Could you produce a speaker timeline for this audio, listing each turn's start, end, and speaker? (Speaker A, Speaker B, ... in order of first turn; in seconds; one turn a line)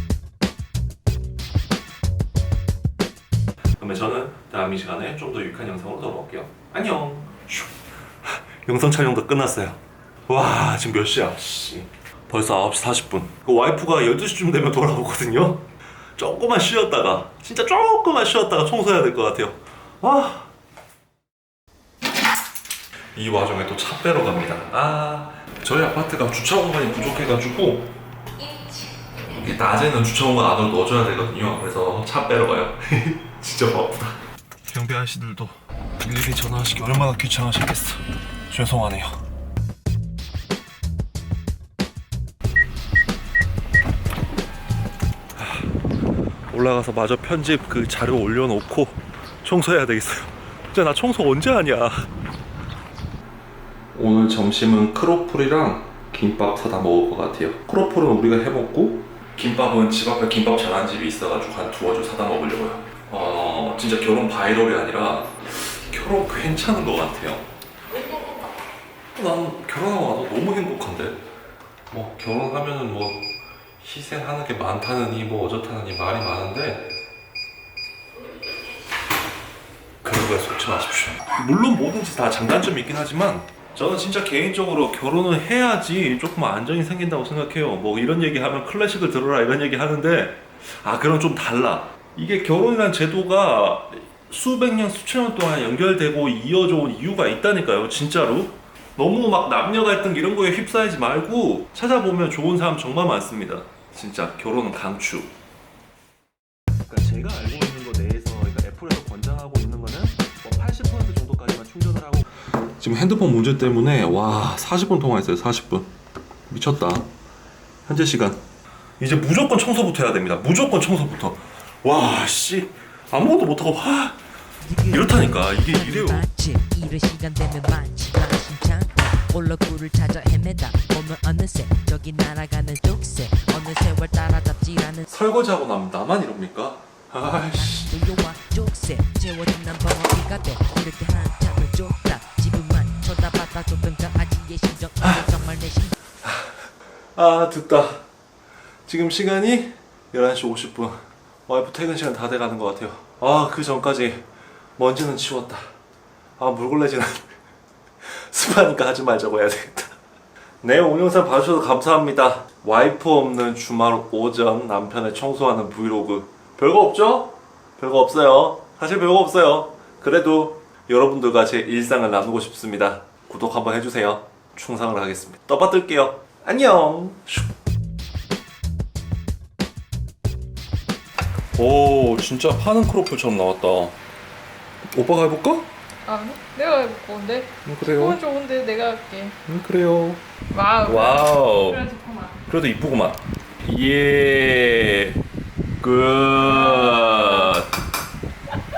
Speaker A: 3.8-20.5
Speaker A: 23.1-27.9
Speaker A: 29.2-39.2
Speaker A: 45.4-45.7
Speaker A: 46.5-52.1
Speaker A: 53.9-67.5
Speaker A: 69.2-71.2
Speaker A: 71.9-76.9
Speaker A: 80.0-105.3
Speaker A: 106.9-115.9
Speaker A: 116.5-117.1
Speaker A: 117.9-118.4
Speaker A: 119.0-124.2
Speaker B: 124.6-135.1
Speaker A: 124.9-126.3
Speaker A: 135.1-137.9
Speaker B: 137.2-146.0
Speaker A: 146.2-146.6
Speaker A: 147.2-148.0
Speaker A: 148.9-154.2
Speaker A: 154.8-155.7
Speaker A: 156.4-157.3
Speaker A: 158.0-160.0
Speaker A: 160.6-177.5
Speaker A: 181.6-184.0
Speaker A: 184.9-185.7
Speaker C: 186.1-189.4
Speaker A: 187.7-188.2
Speaker A: 189.5-190.2
Speaker C: 190.5-192.3
Speaker A: 190.8-191.9
Speaker A: 192.5-195.2
Speaker A: 195.8-197.7
Speaker C: 196.7-197.5